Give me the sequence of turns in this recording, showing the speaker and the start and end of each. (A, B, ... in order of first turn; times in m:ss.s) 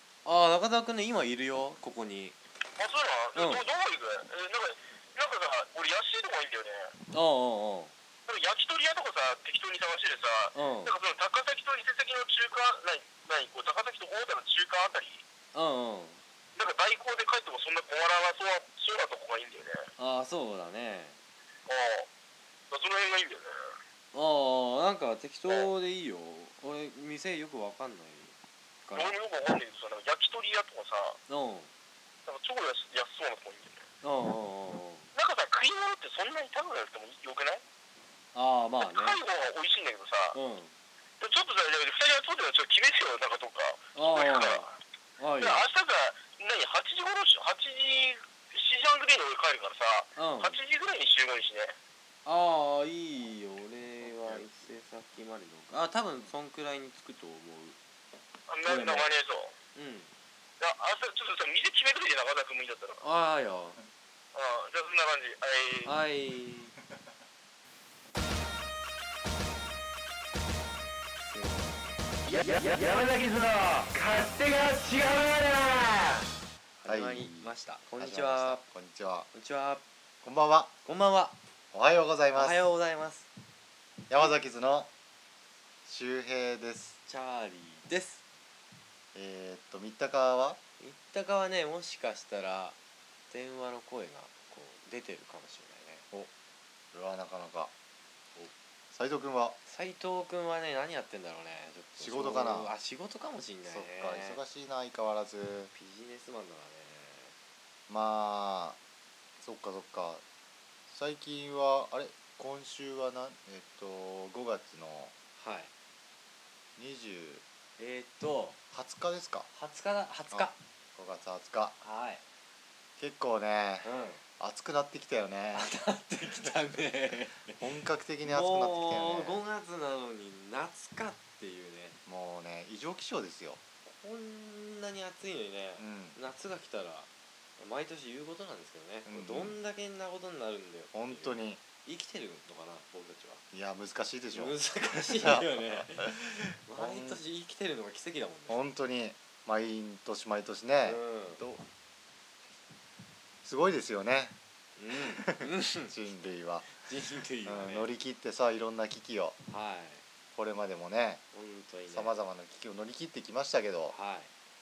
0:00.2-0:02.4 A
0:02.8-0:06.9 B
0:03.3-0:03.6 A
0:07.1-0:07.9 A
0:08.3-0:15.2 B
0:10.5-0:10.9 A
0:15.5-0:16.2 A
0:16.6-0:19.9 B
0:20.0-0:21.2 A
0:21.7-0:22.1 B
0:22.7-0:23.8 B
0:24.1-0:28.3 A
0:28.8-0:29.1 A
0:28.9-0:31.2 B
0:31.3-0:31.7 A
0:32.3-0:33.8 B
0:34.0-0:35.1 A
0:35.1-0:37.6 B
0:38.3-0:39.2 A
0:38.8-0:40.4 B
0:40.3-0:40.7 A
0:41.2-0:44.7 B
0:43.9-0:44.7 A
0:45.2-0:45.6 A
0:45.4-0:51.7 B
0:50.2-0:50.6 A
0:52.2-0:57.8 A
0:58.5-0:59.5 B
0:58.6-0:59.1 A
0:59.7-1:00.1 A
1:00.6-1:03.0 B
1:03.0-1:03.8 A
1:04.3-1:06.0 B
1:05.8-1:06.8 A
1:11.3-1:11.8 C
1:12.7-1:13.0 A
1:13.7-1:15.7 A
1:16.8-1:18.6 A
1:16.8-1:19.3 C
1:19.3-1:19.8 A
1:20.2-1:20.7 C
1:20.8-1:21.4 A
1:21.7-1:22.6 C
1:22.3-1:23.3 A
1:24.1-1:24.9 C
1:25.8-1:27.0 C
1:27.0-1:28.2 A
1:29.1-1:30.6 C
1:30.8-1:32.8 A
1:33.3-1:36.0 A
1:36.9-1:37.7 C
1:38.9-1:39.6 C
1:39.6-1:44.4 A
1:42.0-1:42.7 C
1:43.7-1:45.7 C
1:45.7-1:47.3 A
1:47.9-1:48.8 C
1:49.4-1:50.2 C
1:50.9-1:55.1 C
1:55.4-1:55.7 A
1:56.8-1:57.4 C
1:57.8-1:58.6 A
1:58.7-1:59.5 C
1:59.5-2:00.6 A
2:00.3-2:01.8 C
2:01.8-2:02.2 A
2:03.0-2:05.7 C
2:03.8-2:04.2 A
2:05.5-2:07.6 A
2:07.6-2:09.4 C
2:08.2-2:12.0 A
2:12.0-2:13.6 C
2:13.8-2:23.4 A
2:15.8-2:16.2 C
2:19.0-2:19.6 C
2:20.9-2:21.6 C
2:23.5-2:27.2 C
2:24.3-2:28.6 A
2:28.5-2:31.6 C
2:30.8-2:31.4 A
2:33.4-2:34.4 C
2:34.8-2:35.9 A
2:34.9-2:36.7 C
2:36.7-2:37.9 A
2:37.4-2:39.4 C
2:39.5-2:40.0 A
2:40.3-2:41.2 C
2:41.3-2:42.2 A
2:41.9-2:44.0 C
2:43.9-2:44.3 A